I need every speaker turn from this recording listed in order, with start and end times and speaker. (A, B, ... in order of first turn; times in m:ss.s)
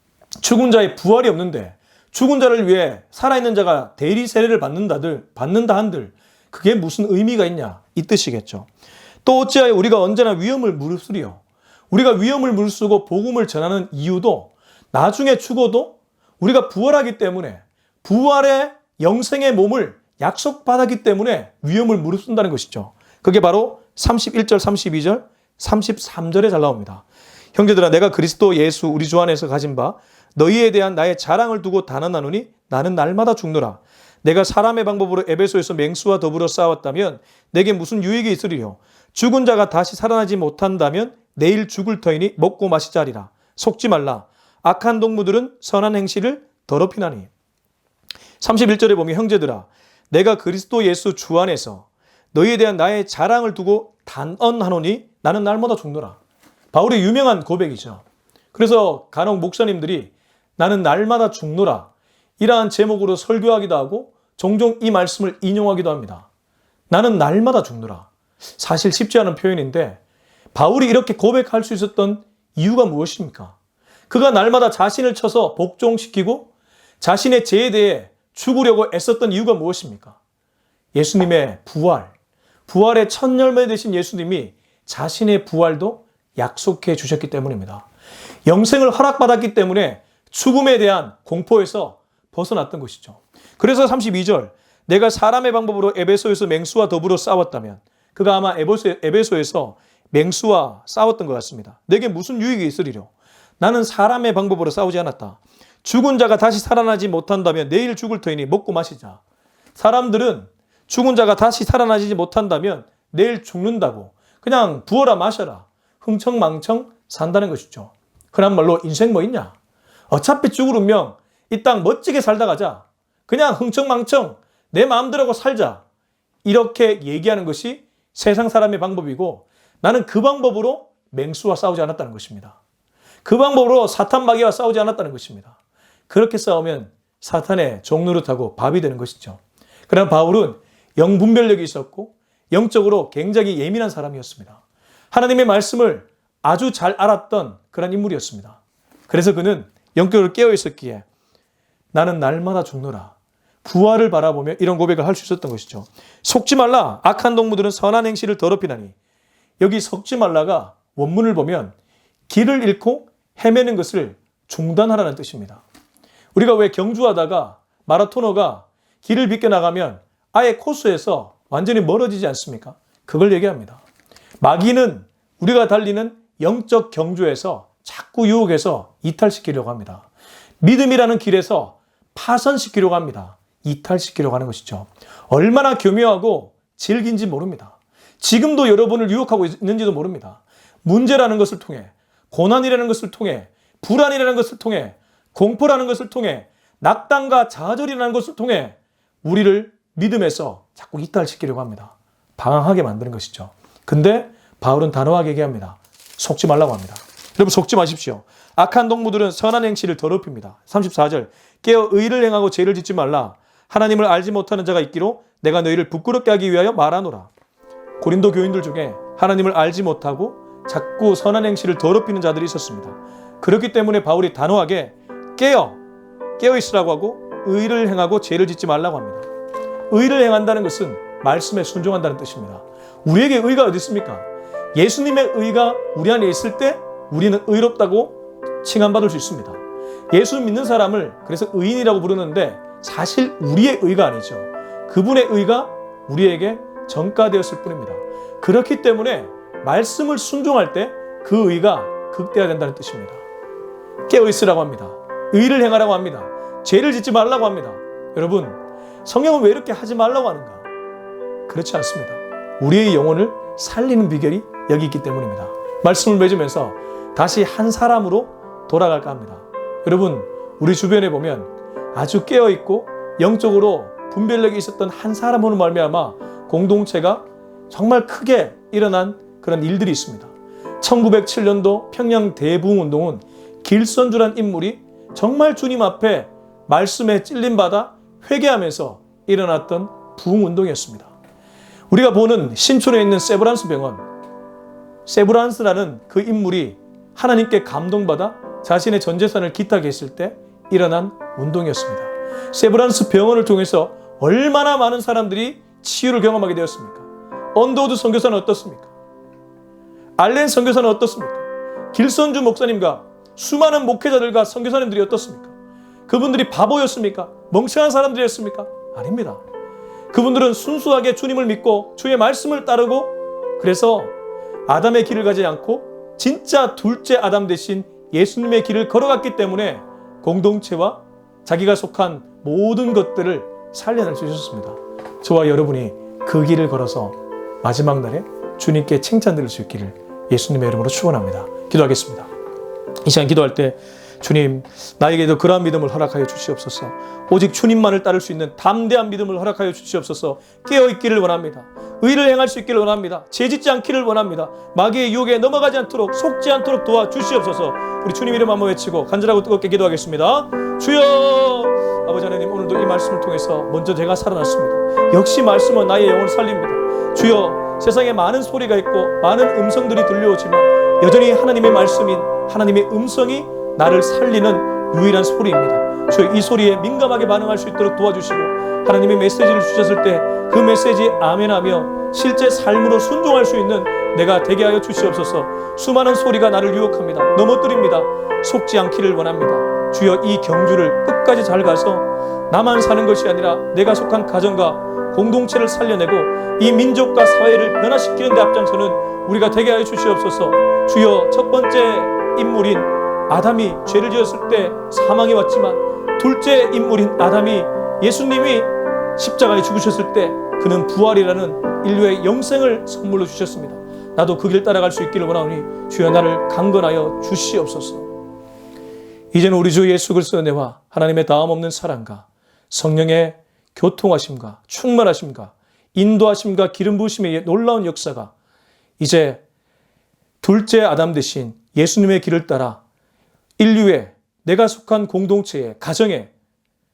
0:00.4-0:08.7 A
0:09.2-0:47.3 A
0:48.4-0:56.2 A
0:56.7-0:58.0 A
0:58.5-1:06.3 A
1:06.9-1:10.0 A
1:10.5-1:13.5 A
1:14.1-1:16.5 A
1:17.0-1:20.2 A
1:20.9-1:22.1 A
1:22.7-1:27.9 A
1:28.5-1:49.2 A
1:49.8-1:59.5 A
2:00.1-2:05.8 A
2:06.4-2:12.6 A
2:13.2-2:15.6 A
2:16.1-2:31.0 A
2:31.9-2:38.9 A
2:39.6-2:41.7 A
2:42.3-2:45.6 A
2:46.3-2:53.8 A
2:54.4-3:00.1 A
3:00.6-3:37.3 A
3:38.0-3:45.8 A
3:46.4-3:49.3 A
3:49.9-3:59.6 A
4:00.1-4:13.2 A
4:14.1-4:20.7 A
4:21.5-4:51.1 A
4:51.9-4:54.0 A
4:55.0-5:08.9 A
5:10.2-5:15.5 A
5:16.1-5:19.4 A
5:20.1-5:24.1 A
5:24.7-5:42.3 A
5:43.0-6:58.1 A
6:59.3-7:08.3 A
7:09.0-7:09.4 A
7:10.4-7:12.8 A
7:13.6-7:16.3 A